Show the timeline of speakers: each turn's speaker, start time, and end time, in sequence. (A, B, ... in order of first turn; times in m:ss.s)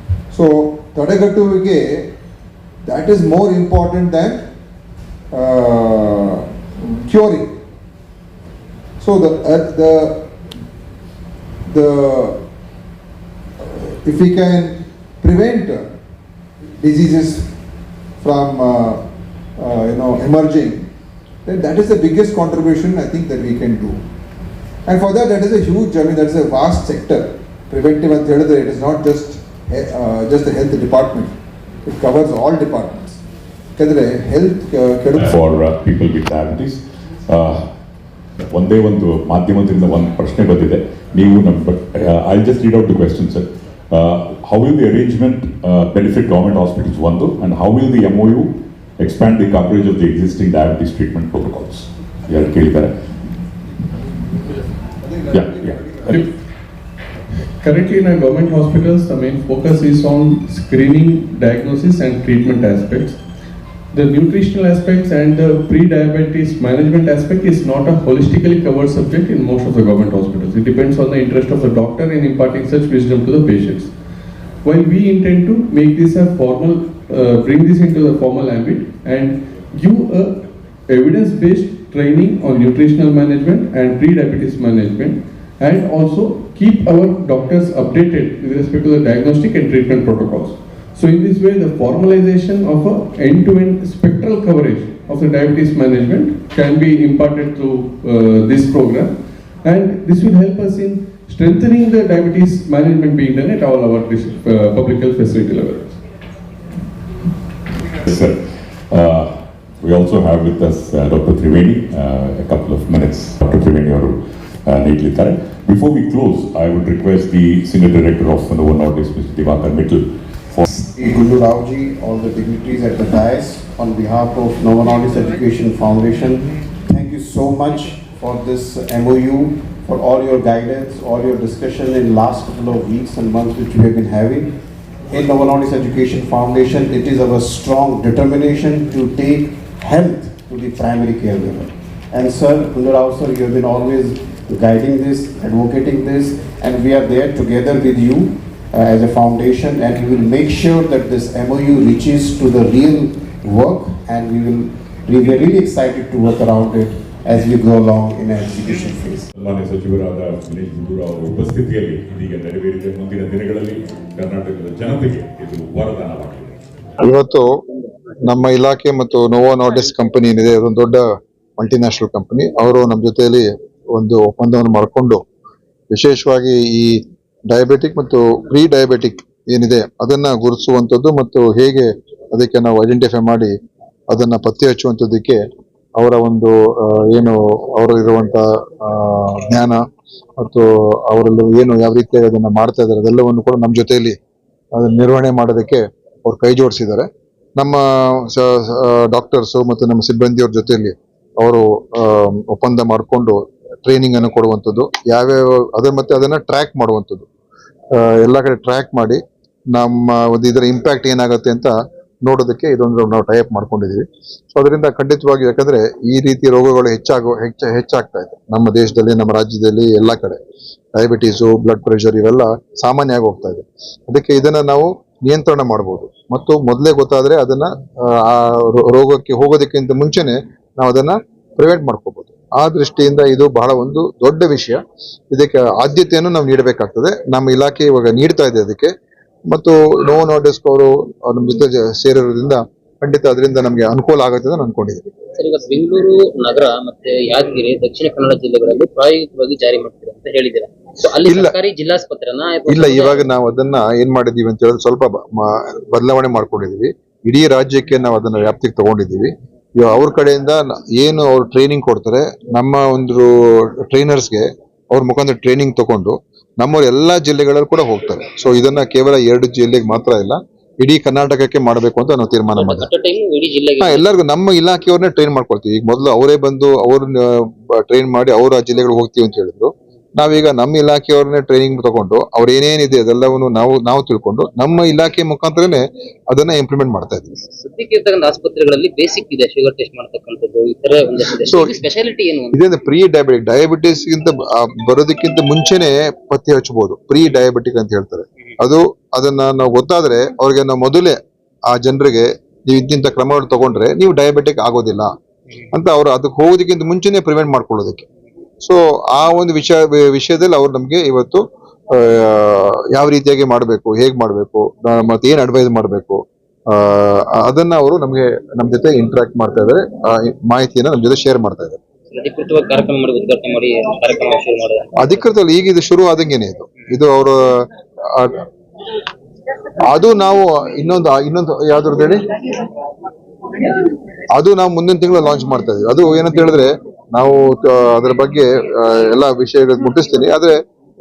0:00.3-0:02.1 A
0:02.9-0:04.4 A
0:05.3-0:07.5 A
0:09.0-0:10.2 A
0:11.7-0:12.4 A
0:13.6-0:15.8 A
0:16.8-0:17.4 A
0:18.2-0:19.0 A
0:19.6-0:20.9 A
0:21.4-0:24.0 A
0:24.9-0:31.3 A
0:31.8-0:33.2 A
0:33.8-0:35.4 A
0:35.2-0:37.6 B
0:38.4-0:52.9 B
0:55.0-0:56.2 A
0:55.3-0:56.2 B
0:57.6-1:03.2 C
1:03.9-1:13.9 C
1:14.6-1:39.1 C
1:39.6-1:46.0 C
1:47.9-2:00.6 B
2:00.7-2:14.5 D
2:15.1-2:39.3 D
2:39.4-2:46.6 B
2:47.0-2:47.5 A
2:48.3-2:51.0 A
2:51.6-2:55.2 A
2:55.9-2:57.0 A
2:57.5-3:03.5 A
3:04.1-3:05.4 A
3:06.0-3:09.8 A
3:10.4-3:14.2 A
3:14.8-3:27.3 A
3:27.9-3:29.2 A
3:29.7-3:40.4 A
3:40.9-3:54.8 A
3:55.3-3:58.9 A
3:59.5-4:05.0 A
4:05.4-4:13.2 E
4:11.2-4:11.6 A
4:12.7-4:23.3 A
4:23.8-4:32.9 A
4:32.6-4:34.1 E
4:33.8-4:47.4 A
4:47.6-4:52.6 E
4:51.5-4:51.8 A
4:52.5-5:01.2 A
5:01.7-5:05.1 A
5:05.7-5:08.1 A
5:08.6-5:21.8 A
5:22.1-5:24.9 E
5:25.0-5:27.4 A
5:28.2-5:28.4 A
5:29.9-5:32.2 A
5:34.3-5:40.6 A